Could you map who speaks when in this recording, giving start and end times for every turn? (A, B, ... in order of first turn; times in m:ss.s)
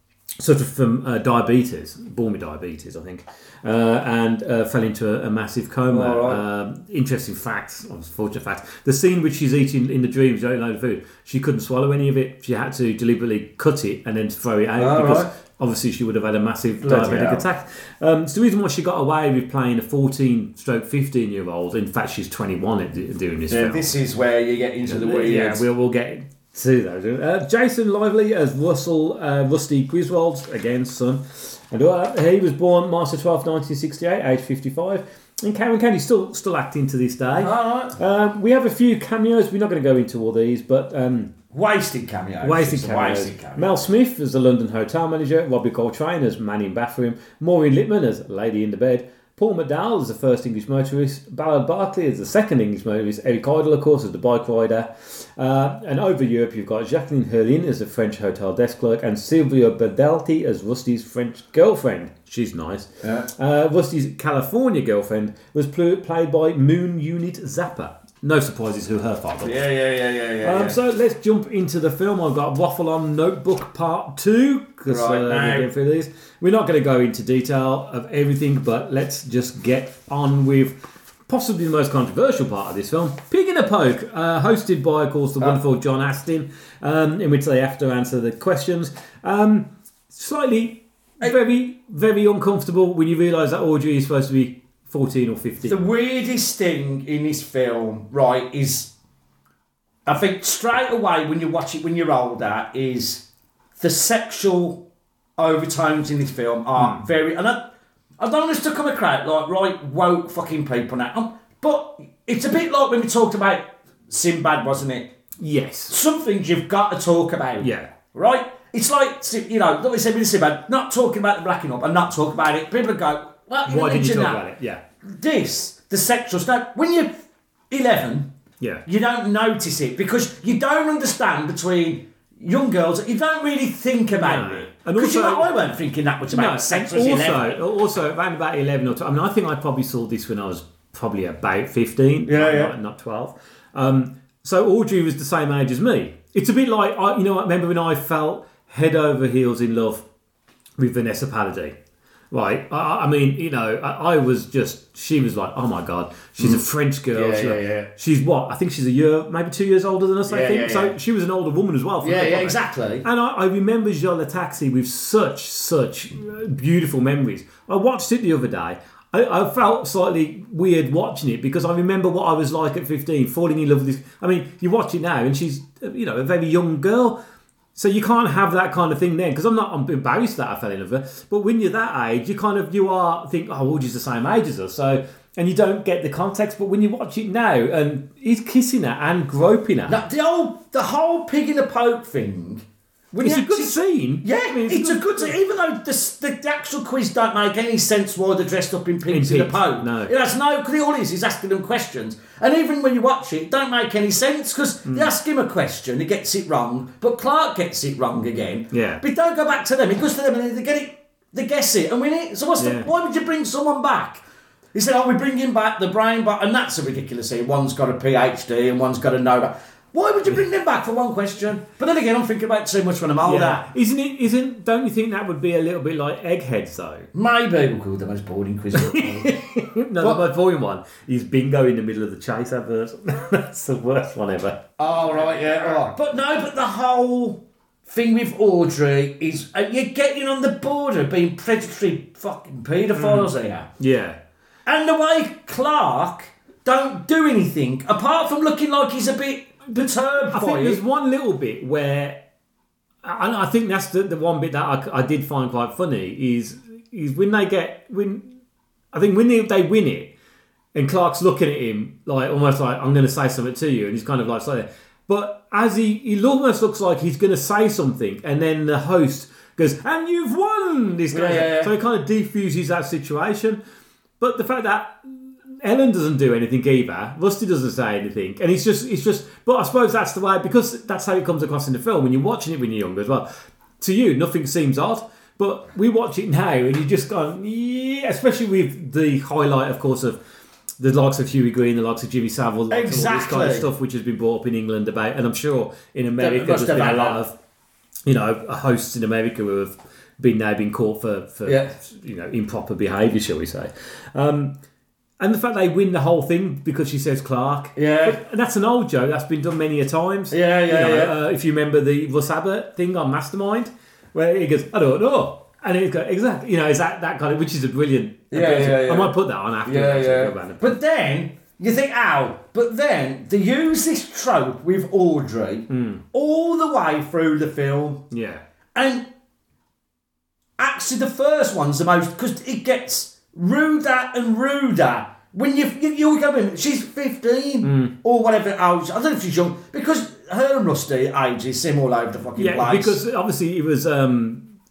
0:00.4-0:24.0 A
0:05.9-0:06.4 B
0:14.8-0:15.3 B
0:16.8-0:17.4 B
0:23.5-0:25.7 B
0:24.8-0:41.3 A
0:37.4-0:38.0 B
0:41.5-0:43.9 B
0:42.4-1:09.7 A
1:03.0-1:03.3 B
1:09.4-1:10.8 B
1:10.4-1:35.8 A
1:14.9-1:15.7 B
1:35.7-1:38.9 B
1:40.1-1:43.2 B
1:43.8-1:44.8 B
1:45.4-1:55.1 B
1:46.8-1:47.1 A
1:55.4-1:56.0 A
1:55.9-2:04.4 B
1:57.6-1:57.9 A
2:03.7-2:04.8 A
2:05.0-2:08.3 B
2:08.9-2:17.6 B
2:14.2-2:15.5 A
2:16.3-2:30.0 A
2:22.3-2:22.7 B
2:30.8-2:31.8 A
2:32.3-2:57.2 A
2:36.4-2:37.9 B
2:40.3-2:41.0 B
2:42.0-2:43.0 B
2:57.8-3:10.0 A
3:09.9-3:43.6 B
3:13.2-3:15.3 A
3:19.1-3:20.1 A
3:24.9-3:25.1 A
3:28.7-3:29.0 A
3:32.6-3:32.9 A
3:43.2-3:47.1 A
3:47.1-3:49.4 B
3:48.8-3:55.9 A
3:54.8-4:03.7 B
4:03.0-4:04.2 A
4:04.7-4:10.8 B
4:09.7-4:12.2 A
4:13.0-4:18.3 A
4:18.9-4:20.1 A
4:20.7-4:33.6 A
4:31.1-4:31.7 B
4:34.2-4:43.3 A
4:43.8-4:50.2 A
4:50.8-4:57.4 A
4:52.7-4:53.7 B
4:56.2-4:57.2 B
4:58.1-5:04.5 A
5:01.5-5:01.7 B
5:05.2-5:20.8 A
5:07.8-5:08.2 B
5:10.3-5:11.2 B
5:18.3-5:28.0 B
5:25.7-5:26.0 A
5:28.1-5:28.4 A
5:28.8-5:29.1 B
5:30.6-5:43.0 B
5:37.6-5:37.9 A
5:42.4-5:44.5 A